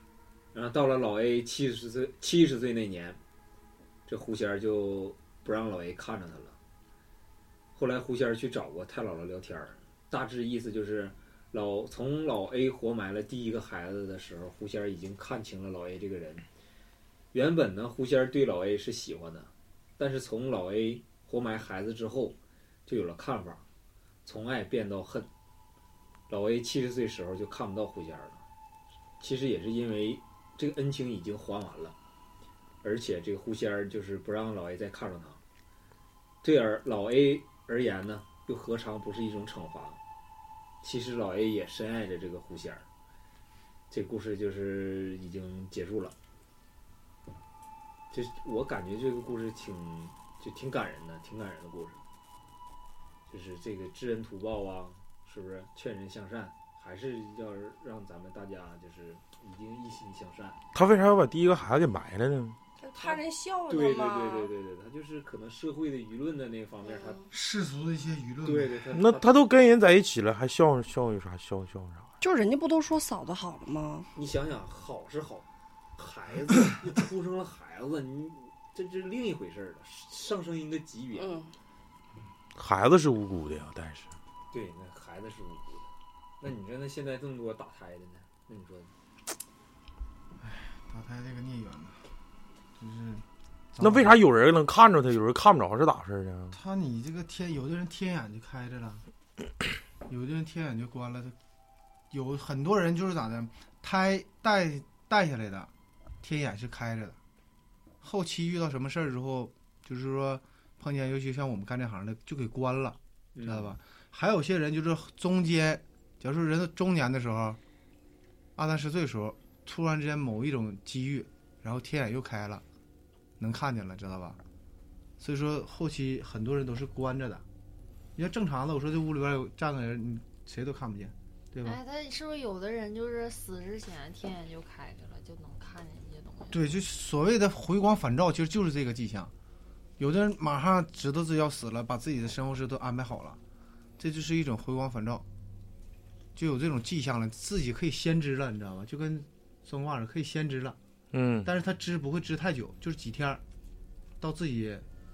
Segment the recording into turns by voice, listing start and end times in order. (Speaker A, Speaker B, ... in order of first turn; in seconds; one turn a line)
Speaker A: 0.5-3.2
Speaker A: 4.1-6.6
Speaker A: 7.7-16.4
Speaker A: 17.3-23.6
Speaker A: 24.2-25.3
Speaker A: 26.3-28.4
Speaker A: 29.2-31.9
Speaker A: 32.8-35.4
Speaker A: 36.4-40.0
Speaker A: 40.8-42.9
Speaker A: 43.9-46.1
Speaker A: 48.1-52.0
Speaker A: 53.3-60.6
Speaker B: 60.7-62.6
Speaker C: 62.8-64.5
Speaker A: 63.0-67.2
Speaker C: 66.9-67.2
Speaker D: 67.3-68.8
Speaker A: 68.4-69.3
Speaker B: 68.9-72.1
Speaker C: 72.2-74.1
Speaker A: 74.1-75.5
Speaker A: 76.0-81.4
Speaker C: 81.1-81.5
Speaker B: 82.5-84.1
Speaker A: 84.5-85.9
Speaker A: 86.4-88.9
Speaker D: 90.4-92.0
Speaker D: 92.8-94.2
Speaker B: 93.8-96.5
Speaker D: 96.5-99.0
Speaker D: 100.0-101.3
Speaker D: 102.1-107.2
Speaker D: 108.0-117.6
Speaker A: 113.3-113.8
Speaker D: 118.5-122.6
Speaker D: 123.4-124.4
Speaker D: 125.2-127.4
Speaker D: 128.2-131.8
Speaker E: 131.6-136.6
Speaker D: 136.5-139.3
Speaker D: 140.0-143.4
Speaker D: 144.0-145.2
Speaker D: 146.3-150.8
Speaker B: 151.1-151.5
Speaker D: 151.4-153.4
Speaker D: 154.2-154.8